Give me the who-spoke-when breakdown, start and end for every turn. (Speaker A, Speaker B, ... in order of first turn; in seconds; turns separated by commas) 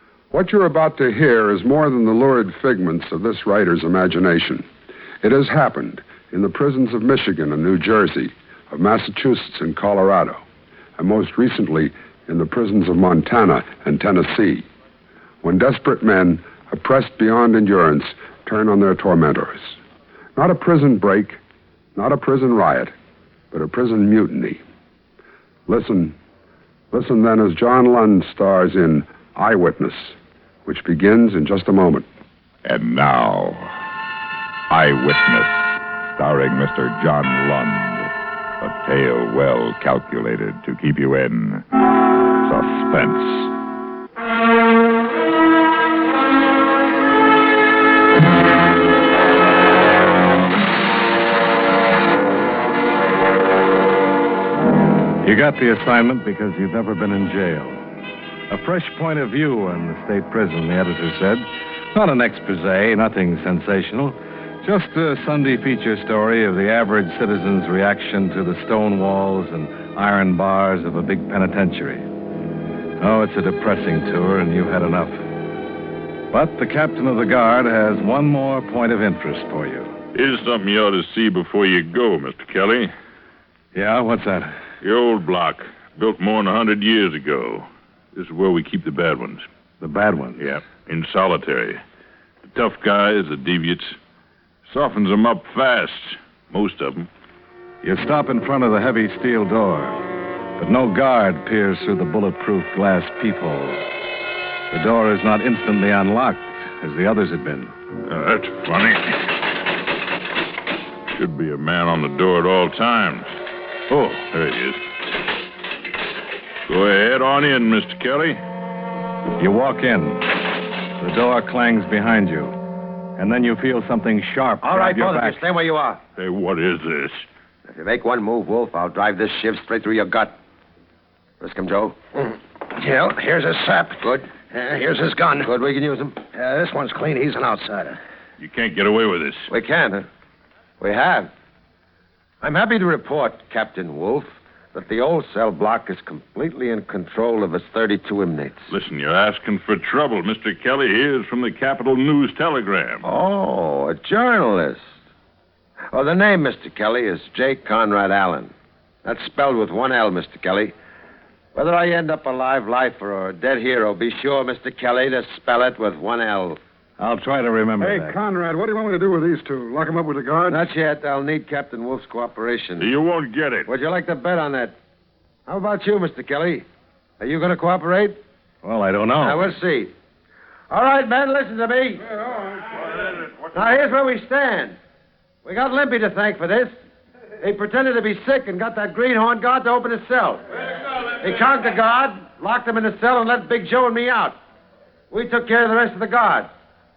Speaker A: 0.3-4.7, Speaker A: 5.2-10.4, Speaker A: 11.0-14.7, Speaker A: 15.4-19.8, Speaker A: 20.4-21.4, Speaker A: 21.9-22.9, Speaker A: 23.5-24.6, Speaker A: 25.7-26.1, Speaker A: 26.9-32.1, Speaker B: 32.6-33.7, Speaker B: 34.7-41.6, Speaker B: 42.4-43.5, Speaker C: 55.2-57.8, Speaker C: 58.5-72.0, Speaker C: 73.0-75.2, Speaker C: 76.3-79.9, Speaker D: 80.1-82.9, Speaker C: 83.7-84.5, Speaker D: 84.8-89.4, Speaker C: 89.8-90.5, Speaker D: 90.4-91.8, Speaker D: 92.4-94.0, Speaker D: 94.7-97.1, Speaker C: 97.8-100.0, Speaker C: 100.6-103.8, Speaker C: 104.7-107.7, Speaker D: 108.1-109.2, Speaker D: 111.1-113.3, Speaker C: 113.9-114.2, Speaker D: 114.3-114.8, Speaker D: 116.7-118.4, Speaker C: 119.4-120.3, Speaker C: 121.0-122.5, Speaker C: 123.2-125.4, Speaker E: 124.6-126.0, Speaker D: 126.2-127.2, Speaker E: 127.6-130.3, Speaker E: 131.4-132.0, Speaker F: 132.3-135.5, Speaker E: 134.0-134.5, Speaker E: 135.4-136.2, Speaker F: 136.2-138.0, Speaker D: 138.4-139.5, Speaker E: 139.5-140.1, Speaker E: 140.8-141.3, Speaker E: 142.4-148.7, Speaker D: 148.7-153.1, Speaker E: 153.0-154.8, Speaker E: 155.9-158.5, Speaker E: 159.0-160.7, Speaker E: 161.5-166.6, Speaker C: 167.0-168.2, Speaker G: 167.8-170.6, Speaker E: 170.4-172.9, Speaker D: 172.8-173.7, Speaker E: 173.7-174.7, Speaker E: 175.5-176.7, Speaker E: 177.2-178.2, Speaker C: 178.6-179.5, Speaker E: 179.2-179.9, Speaker E: 180.7-182.0, Speaker E: 183.5-184.8, Speaker E: 185.4-186.7, Speaker E: 187.4-190.4, Speaker E: 191.2-194.4, Speaker E: 195.1-196.5